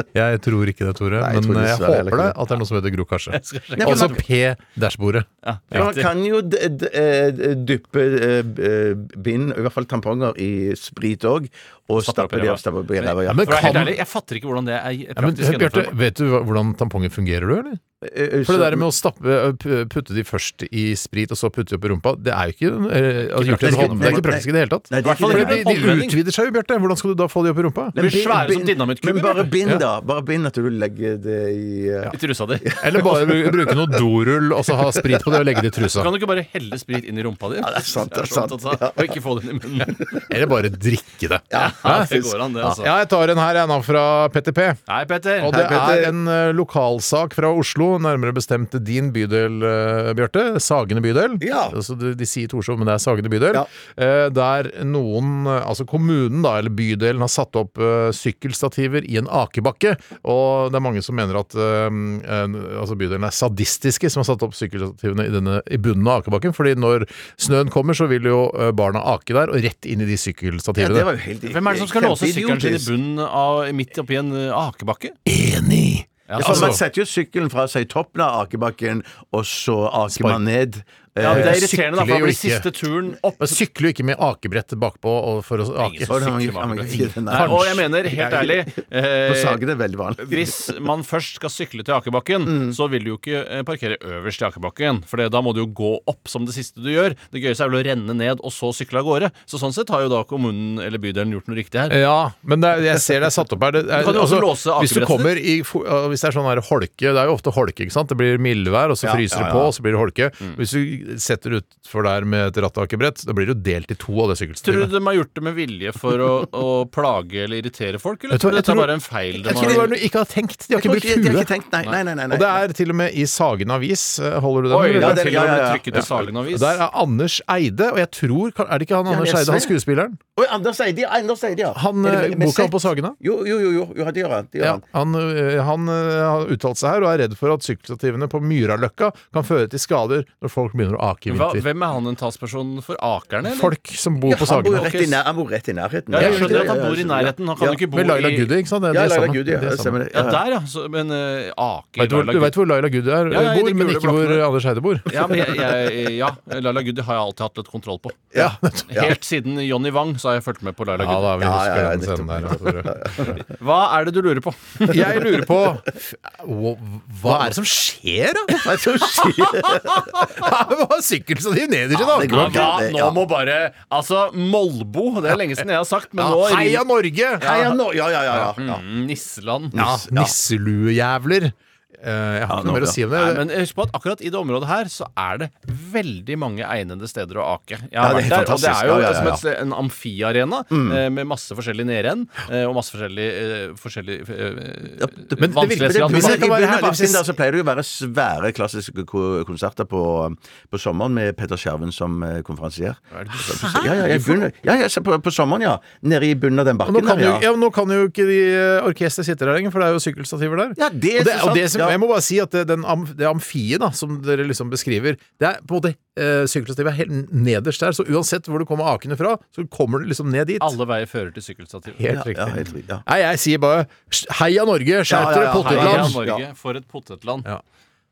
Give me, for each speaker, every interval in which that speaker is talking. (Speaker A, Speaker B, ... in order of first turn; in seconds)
Speaker A: 0.1-5.9, 13.3-13.9, 15.2-17.8, 18.4-27.9, 32.8-36.1, 40.3-44.8, 45.4-71.1, 75.2-76.8, 80.1-80.4, 81.2-82.7, 83.4-88.3, 101.9-114.9, 118.3-121.5, 122.3-125.3, 125.9-130.2, 131.7-133.2, 134.6-141.6, 143.4-144.9, 146.1-146.7, 147.9-150.0, 152.0-155.3, 158.3-159.1, 161.0-163.3, 164.9-172.8, 176.2-177.5, 179.8-183.4, 195.4-197.2, 203.3-204.4, 206.8-220.8, 222.0-226.2
Speaker B: 1.2-2.3, 3.8-4.2, 5.7-13.9, 18.0-18.9, 23.6-25.9, 27.9-34.0, 34.8-35.5, 37.6-39.2, 39.9-40.3, 41.5-42.7, 45.5-46.1, 51.4-51.7, 70.8-72.9, 76.4-81.6, 86.1-88.5, 89.2-90.7, 92.5-92.8, 109.0-109.7, 119.4-119.9, 120.7-122.6, 124.9-126.2, 129.1-129.7, 130.3-134.8, 144.3-147.8, 148.9-150.4, 158.3-159.1, 161.4-163.3, 168.5-170.3, 172.1-173.2, 177.4-178.8, 179.7-180.3, 182.5-183.0, 188.0-189.4, 190.7-191.0, 195.0-207.4, 210.8-212.0, 222.1-223.0, 225.1-226.4
Speaker C: 3.3-4.2, 5.4-6.1, 12.0-15.9, 23.3-24.2, 25.0-26.2, 27.9-29.5, 32.1-32.7, 35.9-40.0, 41.5-42.9, 44.9-45.5, 71.5-75.2, 76.3-76.7, 81.2-83.6, 85.8-89.6, 90.2-102.0, 104.0-105.3, 114.6-119.9, 124.7-126.8, 141.3-143.7, 144.6-145.1, 146.1-148.5, 150.1-152.6, 153.3-154.4, 155.1-158.3, 158.9-161.4, 163.4-165.2, 172.1-176.8, 177.4-177.8, 178.6-179.8, 183.1-196.5, 203.2-204.3, 220.6-222.0, 225.6-227.5